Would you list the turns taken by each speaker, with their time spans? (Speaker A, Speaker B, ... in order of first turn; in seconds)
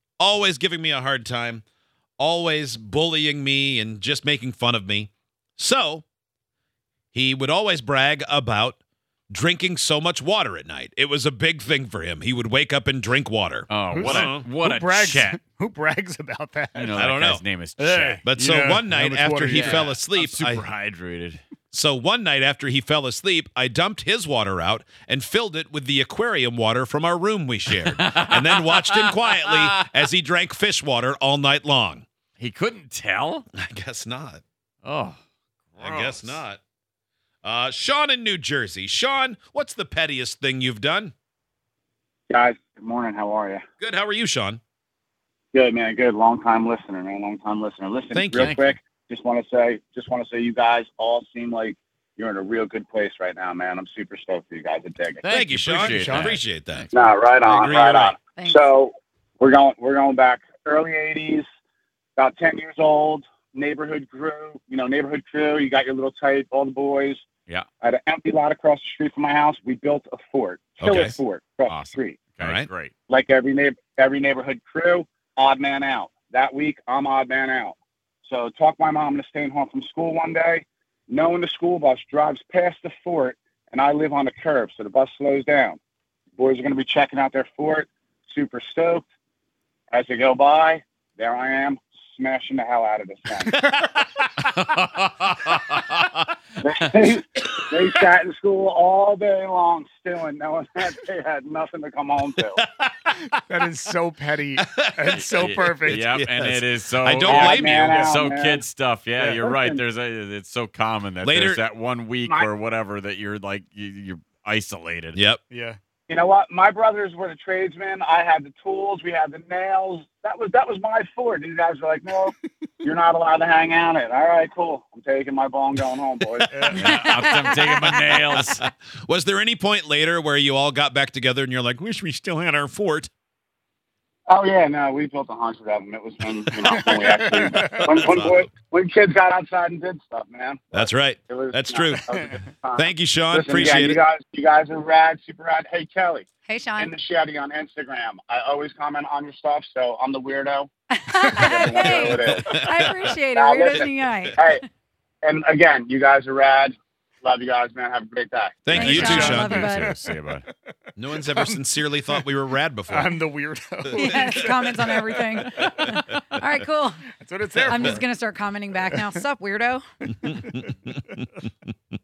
Speaker A: 0.2-1.6, 2.2-6.0, 7.1-8.8, 9.3-14.5, 17.0-17.4, 18.2-20.6, 21.7-32.1, 33.5-34.4, 35.8-36.6, 37.4-41.1, 43.8-44.6, 48.1-48.6, 55.3-56.9, 57.4-58.1, 70.8-71.2, 72.4-72.7, 93.5-94.5, 102.6-103.3, 104.6-105.3, 105.8-108.1, 111.2-111.6, 115.2-115.4, 128.3-133.1, 137.9-138.5, 140.7-142.1, 142.8-144.0, 152.2-153.1, 158.7-159.7, 161.0-163.2, 170.2-171.5
Speaker B: 13.7-15.4, 16.8-18.2, 19.5-21.4, 27.7-29.7, 32.4-33.5, 34.8-35.2, 35.7-36.4, 55.3-57.1, 71.7-72.9, 94.4-96.0, 105.1-115.2, 126.7-128.6, 158.7-160.5
Speaker C: 13.9-17.0, 17.8-20.0, 55.8-56.4, 103.3-106.0, 109.2-109.4, 115.5-115.8, 126.5-126.9, 136.7-138.0, 142.1-142.4, 159.0-159.9, 161.3-161.6, 162.9-165.7, 167.2-168.0
Speaker D: 42.3-43.6, 45.5-55.2, 56.9-61.5, 62.2-67.2, 67.8-72.2, 73.1-85.8, 86.4-89.0, 89.9-93.5, 96.6-102.6, 107.2-108.6, 109.4-109.8, 112.2-112.5, 116.1-126.5, 134.3-146.3, 146.8-150.7, 151.3-152.7, 153.3-154.6, 155.2-158.7
Speaker E: 58.4-58.7, 126.8-128.1, 146.4-146.9, 150.9-154.7, 158.7-159.9, 163.9-167.0, 167.7-170.4